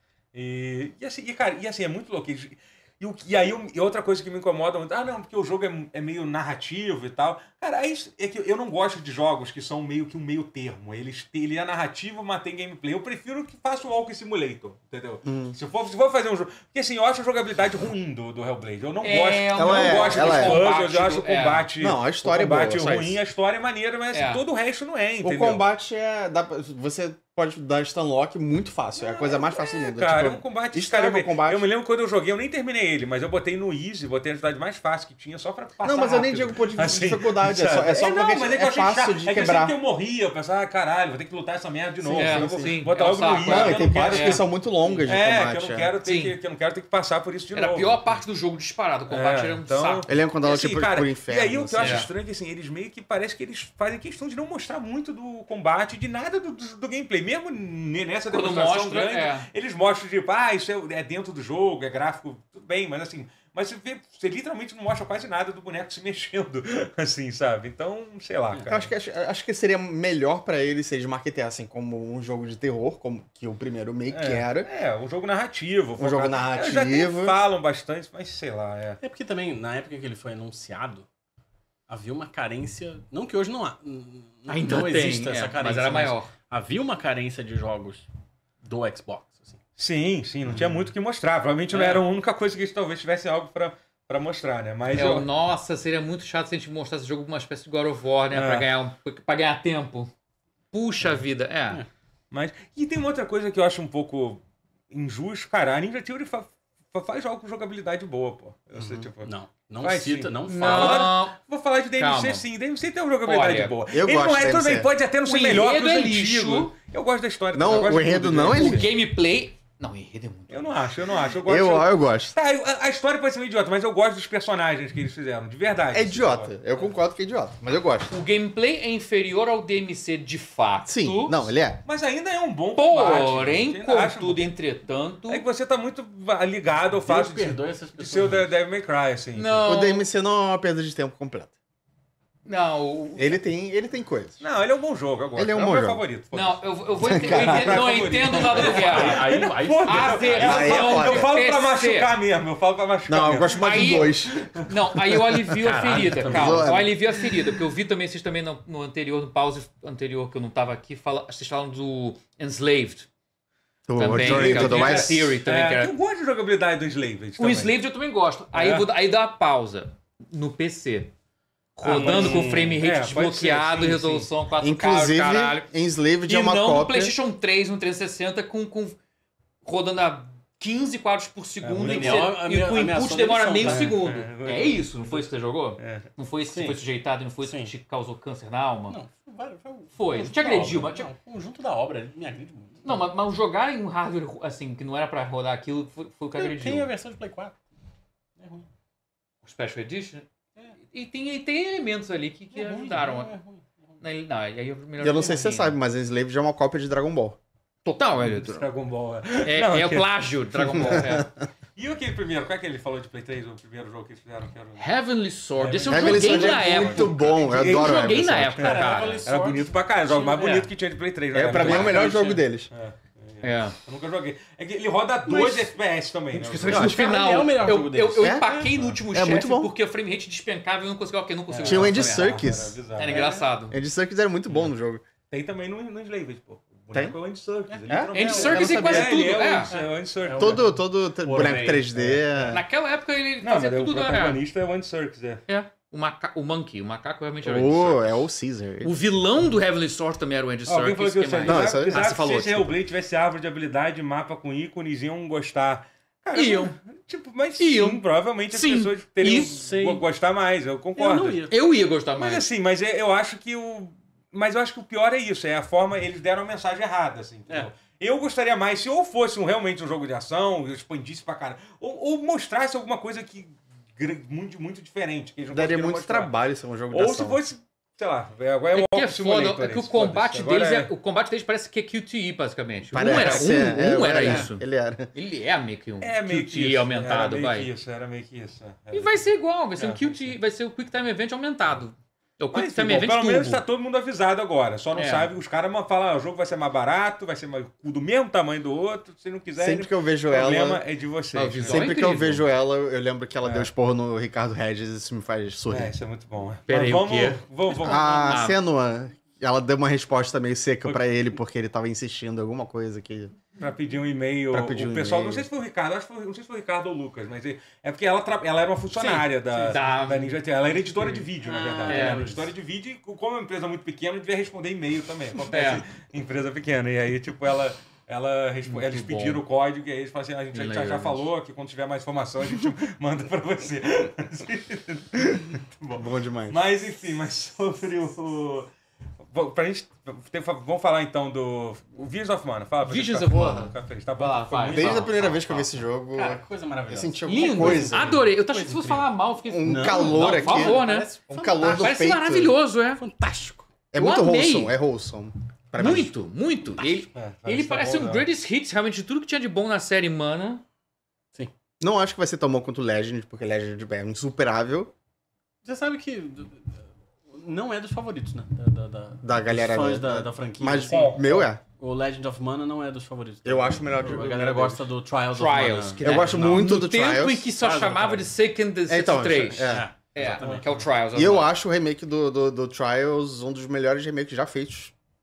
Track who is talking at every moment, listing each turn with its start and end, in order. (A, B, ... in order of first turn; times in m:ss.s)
0:00.3-0:25.6 A
0:15.2-0:15.6 B
0:19.0-0:21.7 C
0:19.5-0:20.6 B
0:21.8-0:23.2 B
0:24.1-0:24.4 C
0:25.2-0:31.7 B
0:29.8-0:44.5 A
0:35.8-0:39.7 B
0:42.0-0:42.8 B
0:42.1-0:44.4 C
0:43.4-0:45.9 B
0:45.0-0:48.0 A
0:46.0-0:46.4 C
0:47.5-0:50.1 C
0:49.1-1:08.9 A
0:50.1-0:52.1 B
0:51.8-0:52.1 C
0:58.3-0:59.5 C
1:08.7-1:14.7 B
1:14.1-1:19.0 A
1:16.0-1:17.4 B
1:19.0-1:21.0 D
1:21.9-1:28.1 D
1:24.5-1:26.3 C
1:28.6-1:29.6 D
1:29.8-1:35.3 A
1:30.5-1:30.8 D
1:34.9-1:40.1 C
1:38.3-1:38.7 A
1:40.7-1:41.8 C
1:42.3-1:58.9 A
1:48.7-1:49.1 B
1:49.2-1:51.1 D
1:50.5-1:51.4 C
1:52.0-1:52.4 C
1:53.2-1:53.8 C
1:53.9-1:54.9 B
1:55.2-1:56.7 C
1:57.5-1:58.9 B
1:58.5-2:00.8 C
2:00.5-2:06.6 A
2:01.3-2:02.4 B
2:05.9-2:08.1 B
2:08.1-2:11.5 C
2:10.8-2:11.8 B
2:11.8-2:14.4 A
2:12.8-2:15.4 C
2:15.3-2:19.7 A
2:17.0-2:18.5 D
2:19.3-2:20.1 C
2:19.6-2:21.5 B
2:22.4-2:23.4 C
2:23.2-2:24.4 B
2:24.4-2:34.7 A
2:25.4-2:26.0 B
2:26.3-2:32.1 C
2:27.0-2:27.8 B
2:28.5-2:30.8 D
2:30.4-2:31.3 B
2:33.1-2:34.3 B
2:33.4-2:34.2 C
2:34.7-2:43.1 C
2:35.6-2:36.7 D
2:35.9-2:37.0 B
2:43.9-2:45.3 B
2:44.0-2:45.9 C
2:44.0-2:47.7 A
2:47.4-2:51.1 C
2:48.5-2:48.9 A
2:51.8-2:55.7 C
2:51.8-2:54.3 A
2:51.8-2:52.8 D
2:54.6-2:57.1 B
2:56.3-2:59.0 C
2:59.6-3:09.0 C
3:01.6-3:02.4 A
3:01.8-3:04.0 D
3:03.6-3:05.2 A
3:05.8-3:06.1 A
3:06.5-3:06.8 D
3:07.4-3:07.7 D
3:08.9-3:13.1 D
3:10.0-3:11.1 C
3:12.8-3:16.9 C
3:16.3-3:17.6 D
3:18.4-3:18.7 D
3:19.4-3:20.2 C
3:20.9-3:23.4 C
3:22.5-3:23.8 D
3:24.0-3:25.7 C
3:25.0-3:27.4 B
3:27.8-3:28.6 C
3:28.2-3:31.2 A
3:29.4-3:31.3 C
3:30.8-3:31.2 B
3:31.8-3:34.8 A
3:34.8-3:39.2 C
3:35.6-3:47.1 A
3:35.9-3:38.6 B
3:38.6-3:40.7 D
3:41.3-3:42.7 B
3:41.5-3:42.4 D
3:41.6-3:42.0 C
3:43.4-3:43.8 C
3:45.3-3:45.7 D
3:46.3-3:48.7 D
3:46.4-3:53.8 C
3:48.2-3:48.5 B
3:49.1-3:49.7 B
3:51.5-3:53.3 A
3:51.6-3:52.8 B
3:53.1-3:53.4 D
3:53.7-3:55.0 B
3:55.3-4:00.6 A
3:57.7-3:58.7 D
3:57.9-3:59.2 B
3:58.1-3:59.7 C
3:59.7-4:02.6 D
4:00.4-4:02.6 B
4:02.5-4:04.4 C
4:03.4-4:05.4 A
4:05.5-4:08.3 C
4:07.4-4:08.9 B
4:08.8-4:12.8 C
4:10.6-4:21.5 A
4:11.4-4:12.0 B
4:16.3-4:16.7 C
4:17.6-4:19.6 C
4:19.5-4:20.0 D
4:20.9-4:21.5 D
4:21.5-4:22.4 C
4:22.1-4:36.3 A
4:35.5-4:37.4 B
4:36.9-4:40.9 A
4:38.7-4:44.6 C
4:42.9-4:45.1 B
4:43.1-4:43.6 A
4:44.2-4:44.5 A
4:45.1-4:47.7 C
4:46.0-4:50.4 A
4:48.9-4:53.6 C
4:52.5-5:02.2 A
4:54.9-4:55.3 C
4:59.6-5:00.8 B
5:01.3-5:02.4 C
5:01.7-5:05.9 B
5:03.4-5:03.7 A
5:05.7-5:08.5 A
5:06.7-5:07.4 C
5:07.8-5:13.3 B
5:08.2-5:08.6 C
5:13.6-5:38.7 A
5:14.5-5:15.4 B
5:19.0-5:20.3 C
5:19.5-5:19.8 D
5:20.9-5:22.5 D
5:21.8-5:22.2 C
5:25.4-5:25.8 C
5:28.6-5:29.4 C
5:30.5-5:31.2 C
5:35.9-5:36.6 B
5:39.2-5:45.1 A
5:42.8-5:45.3 C
5:44.7-5:48.2 B
5:45.2-5:49.1 D
5:47.2-5:51.1 C
5:49.4-5:52.5 B
5:49.6-5:52.0 D
5:51.6-5:53.0 C
5:53.0-5:53.6 D
5:53.9-5:56.1 B
5:54.0-5:54.8 C
5:55.8-6:00.6 C
5:57.1-5:58.3 A
6:01.8-6:04.9 B
6:05.6-6:16.7 D
6:09.2-6:11.6 B
6:10.9-6:11.3 A
6:13.4-6:14.8 B
6:15.3-6:21.5 C
6:16.0-6:17.4 B
6:17.6-6:18.3 D
6:18.9-6:19.8 B
6:19.7-6:20.7 D
6:20.2-6:20.8 A
6:21.1-6:24.9 B